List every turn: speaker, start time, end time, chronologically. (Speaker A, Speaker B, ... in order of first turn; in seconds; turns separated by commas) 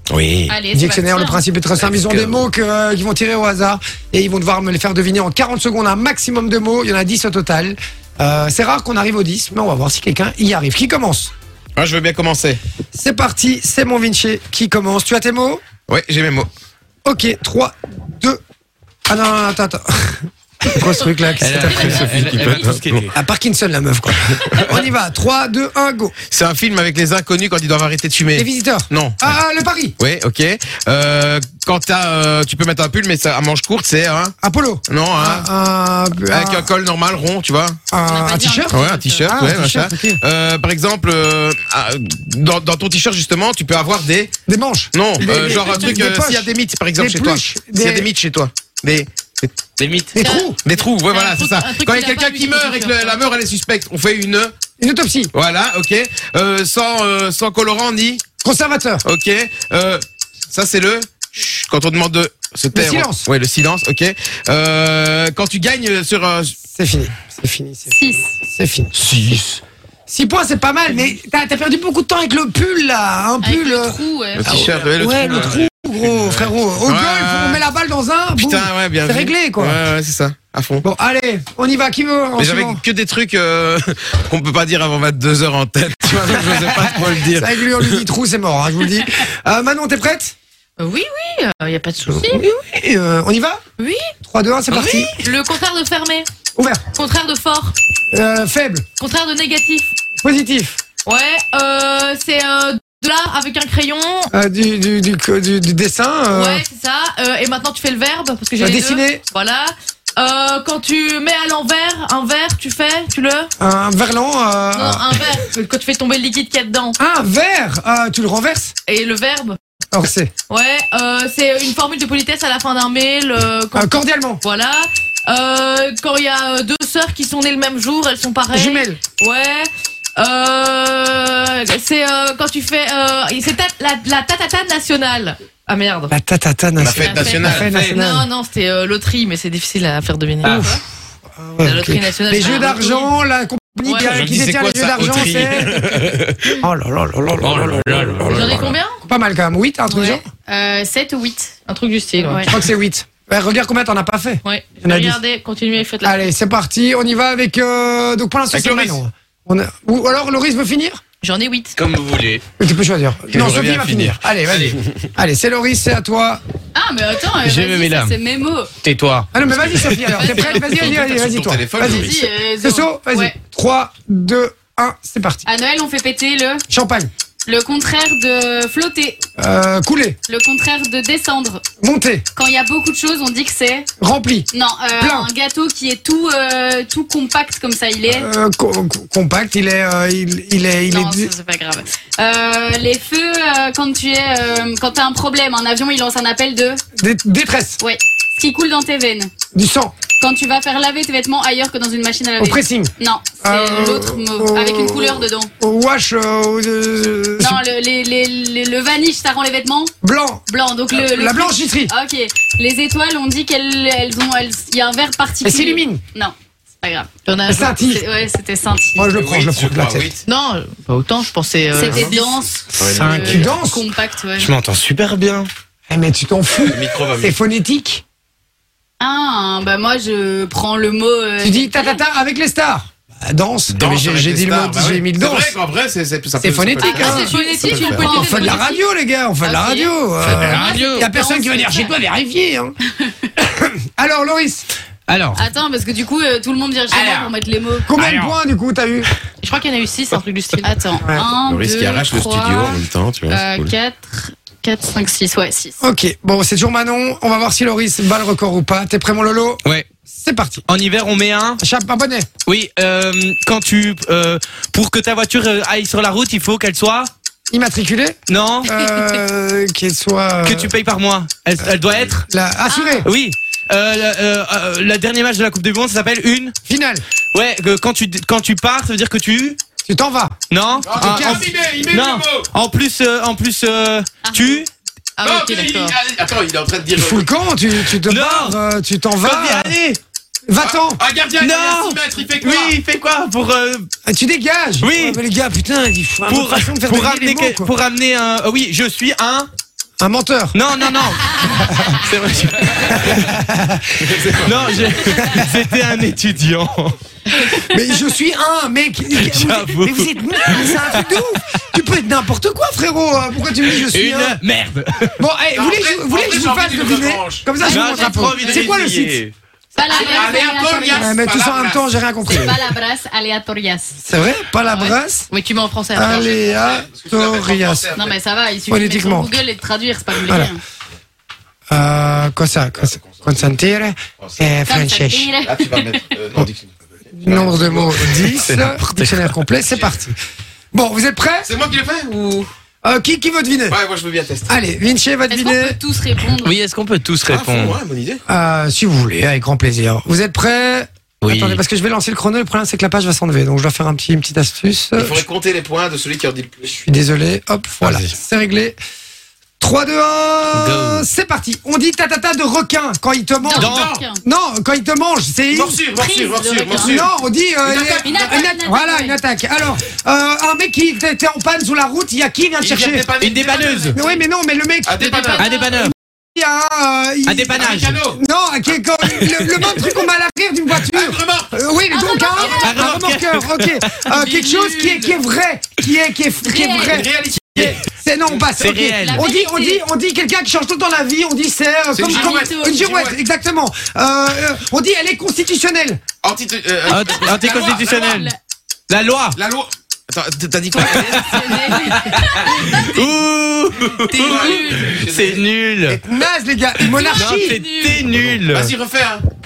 Speaker A: 0.1-0.5, Speaker B: 0.5-1.4, Speaker C: 0.7-11.3, Speaker A: 2.0-2.4, Speaker A: 11.8-12.6, Speaker C: 12.9-15.6, Speaker A: 15.9-16.5, Speaker C: 17.0-18.4, Speaker C: 19.1-22.6, Speaker D: 21.4-23.1, Speaker E: 21.6-22.7, Speaker A: 21.8-23.1, Speaker C: 23.1-26.1, Speaker A: 24.5-24.8, Speaker A: 26.3-29.4, Speaker C: 28.3-29.9, Speaker A: 30.0-34.3, Speaker C: 34.4-36.7, Speaker A: 34.9-35.5, Speaker A: 36.3-37.8, Speaker C: 37.9-40.2, Speaker B: 38.0-39.3, Speaker A: 38.7-44.3, Speaker C: 44.5-48.1, Speaker A: 44.9-54.5, Speaker C: 50.1-50.6, Speaker E: 50.2-53.2, Speaker C: 54.8-55.3, Speaker A: 55.3-58.2, Speaker C: 58.4-59.0, Speaker A: 59.0-66.5, Speaker C: 62.7-63.3, Speaker C: 66.6-68.9, Speaker B: 67.9-68.3, Speaker A: 69.0-69.6, Speaker C: 70.1-79.8, Speaker B: 73.4-74.9, Speaker A: 74.3-77.7, Speaker A: 78.3-80.8, Speaker C: 80.8-82.8, Speaker A: 82.4-88.0, Speaker C: 86.5-90.3, Speaker E: 90.8-92.5, Speaker C: 92.1-93.6, Speaker E: 93.8-94.1, Speaker C: 94.2-95.2, Speaker D: 94.7-95.0, Speaker E: 95.0-96.3, Speaker C: 96.5-96.8, Speaker E: 96.9-97.8, Speaker C: 98.1-98.8, Speaker E: 99.0-99.9, Speaker C: 100.2-100.8, Speaker E: 101.0-104.3, Speaker C: 104.3-106.6, Speaker E: 106.3-113.5, Speaker C: 108.6-109.2, Speaker C: 113.6-115.1, Speaker E: 114.7-117.0, Speaker C: 117.0-118.7, Speaker E: 118.9-119.6, Speaker C: 119.9-120.3, Speaker E: 120.5-136.1, Speaker C: 123.7-124.4, Speaker C: 128.5-129.0, Speaker C: 136.1-138.3, Speaker A: 136.8-138.0, Speaker E: 137.0-140.7, Speaker C: 140.4-140.8, Speaker B: 140.4-140.8, Speaker C: 141.4-145.9, Speaker E: 141.6-143.1, Speaker E: 143.8-144.2, Speaker A: 144.0-146.5, Speaker C: 146.6-150.2, Speaker D: 147.5-148.7, Speaker A: 148.2-148.4, Speaker E: 148.3-149.0, Speaker B: 149.9-151.5, Speaker E: 151.7-152.5, Speaker B: 152.2-152.5, Speaker C: 152.5-155.2, Speaker E: 154.4-156.2, Speaker C: 156.0-161.0, Speaker A: 158.5-159.0, Speaker E: 161.2-161.8, Speaker D: 161.8-162.2, Speaker C: 162.6-166.4, Speaker A: 163.3-164.8, Speaker B: 166.7-168.7, Speaker D: 167.4-168.2, Speaker D: 168.8-170.7, Speaker C: 169.3-175.4, Speaker A: 169.5-169.9, Speaker B: 170.1-170.8, Speaker A: 170.7-172.2, Speaker B: 171.8-173.3, Speaker B: 175.4-176.6, Speaker C: 176.7-177.1, Speaker B: 177.4-179.2, Speaker C: 179.4-180.2, Speaker B: 180.3-181.6, Speaker C: 181.8-182.2, Speaker B: 182.3-183.9, Speaker C: 184.0-185.3, Speaker B: 184.5-188.3, Speaker C: 188.1-191.3, Speaker B: 190.9-196.8, Speaker C: 197.0-197.8, Speaker B: 197.8-199.3, Speaker C: 199.5-199.9, Speaker B: 200.2-205.5, Speaker C: 202.4-202.9, Speaker C: 203.4-207.6, Speaker B: 207.4-209.9, Speaker C: 210.0-211.9, Speaker B: 210.5-219.1, Speaker C: 215.4-216.0, Speaker E: 217.2-217.7, Speaker C: 217.5-218.0, Speaker C: 218.9-220.1, Speaker A: 219.1-220.2, Speaker E: 220.3-222.4, Speaker B: 221.7-224.6, Speaker A: 221.8-222.1, Speaker A: 222.8-223.5, Speaker D: 223.0-223.3, Speaker C: 223.1-223.8, Speaker D: 224.4-225.5, Speaker C: 225.9-228.0, Speaker A: 226.6-227.3, Speaker B: 229.0-232.0, Speaker C: 231.4-235.6, Speaker A: 233.7-238.1, Speaker C: 236.4-237.3, Speaker B: 236.8-238.8, Speaker E: 236.9-238.7, Speaker C: 238.0-242.7, Speaker B: 239.4-241.9, Speaker D: 240.2-241.1, Speaker B: 242.8-243.3, Speaker C: 243.4-244.7, Speaker D: 245.1-245.4, Speaker B: 245.3-247.9, Speaker C: 247.9-249.1, Speaker D: 248.0-248.4, Speaker E: 249.4-250.8, Speaker B: 250.6-255.8, Speaker C: 251.0-251.3, Speaker A: 251.4-253.7, Speaker C: 255.8-260.6, Speaker D: 260.7-261.6, Speaker C: 261.6-262.3, Speaker D: 262.4-267.1, Speaker C: 267.5-270.7, Speaker D: 268.3-268.8, Speaker D: 270.4-272.2, Speaker C: 272.2-273.1, Speaker B: 272.7-273.0, Speaker D: 273.0-276.5, Speaker C: 276.6-277.0, Speaker D: 277.3-279.6, Speaker C: 279.8-280.3, Speaker D: 280.5-284.7, Speaker A: 280.8-282.5, Speaker C: 280.9-281.4, Speaker B: 284.2-284.6, Speaker E: 285.2-285.9, Speaker A: 285.2-287.3, Speaker C: 286.9-289.7, Speaker D: 288.0-288.6, Speaker D: 289.2-290.0, Speaker C: 290.5-291.0, Speaker A: 290.6-292.8, Speaker D: 291.4-293.9, Speaker C: 294.1-297.7, Speaker D: 294.8-295.2, Speaker D: 296.3-299.5, Speaker C: 300.0-300.6, Speaker D: 300.5-303.4, Speaker C: 302.8-305.5, Speaker A: 304.1-304.9, Speaker D: 304.4-306.9, Speaker C: 307.6-314.4, Speaker D: 309.1-311.4, Speaker D: 313.6-315.2, Speaker C: 315.2-319.2, Speaker A: 315.5-317.6, Speaker D: 317.6-319.3, Speaker B: 317.6-318.3, Speaker A: 318.2-318.8, Speaker B: 319.7-321.2, Speaker E: 319.8-320.3, Speaker A: 319.9-321.8, Speaker C: 320.9-322.7, Speaker B: 322.3-324.0, Speaker C: 324.0-325.3, Speaker E: 325.3-326.2, Speaker C: 325.9-327.9, Speaker A: 326.1-328.2, Speaker B: 327.9-330.6, Speaker C: 328.7-329.4, Speaker C: 330.3-330.5, Speaker C: 331.7-335.3, Speaker A: 332.8-333.5, Speaker B: 334.6-336.0, Speaker A: 335.4-338.6, Speaker C: 337.1-340.1, Speaker D: 338.4-339.3, Speaker A: 339.7-340.0, Speaker C: 340.7-341.5, Speaker A: 341.4-342.5, Speaker C: 342.8-343.8, Speaker A: 343.7-344.6, Speaker C: 344.5-345.8, Speaker B: 345.3-346.6, Speaker D: 346.4-347.8, Speaker A: 347.2-348.2, Speaker C: 348.3-355.2, Speaker D: 351.2-351.6, Speaker A: 354.9-356.6, Speaker C: 356.6-358.8, Speaker D: 357.8-358.1, Speaker C: 359.6-365.8, Speaker D: 360.5-361.1, Speaker B: 363.4-364.2, Speaker D: 363.5-363.9, Speaker A: 363.6-364.0, Speaker A: 365.5-367.1, Speaker B: 365.9-366.9, Speaker C: 366.8-373.1, Speaker A: 367.6-368.4, Speaker B: 368.0-369.2, Speaker A: 372.6-374.0, Speaker D: 373.2-374.0, Speaker C: 373.9-396.0, Speaker B: 374.0-374.2, Speaker A: 374.8-375.6, Speaker B: 375.1-375.7, Speaker D: 375.4-375.9, Speaker D: 377.3-378.0, Speaker A: 377.6-378.2, Speaker A: 380.8-381.5, Speaker B: 381.9-382.8, Speaker A: 382.4-382.7, Speaker D: 382.6-384.2, Speaker E: 384.2-385.0, Speaker B: 386.4-387.0, Speaker A: 386.9-388.5, Speaker D: 388.6-389.2, Speaker B: 389.0-389.8, Speaker A: 391.9-393.1, Speaker B: 392.1-392.8, Speaker A: 396.2-398.3, Speaker D: 396.9-398.3, Speaker B: 397.3-398.4, Speaker D: 398.9-399.4, Speaker A: 399.4-401.8, Speaker D: 400.8-406.0, Speaker B: 401.0-403.0, Speaker A: 404.1-405.4, Speaker B: 404.2-404.5, Speaker E: 404.5-404.8, Speaker C: 405.9-407.6, Speaker D: 406.8-408.7, Speaker E: 407.0-408.0, Speaker A: 408.0-409.2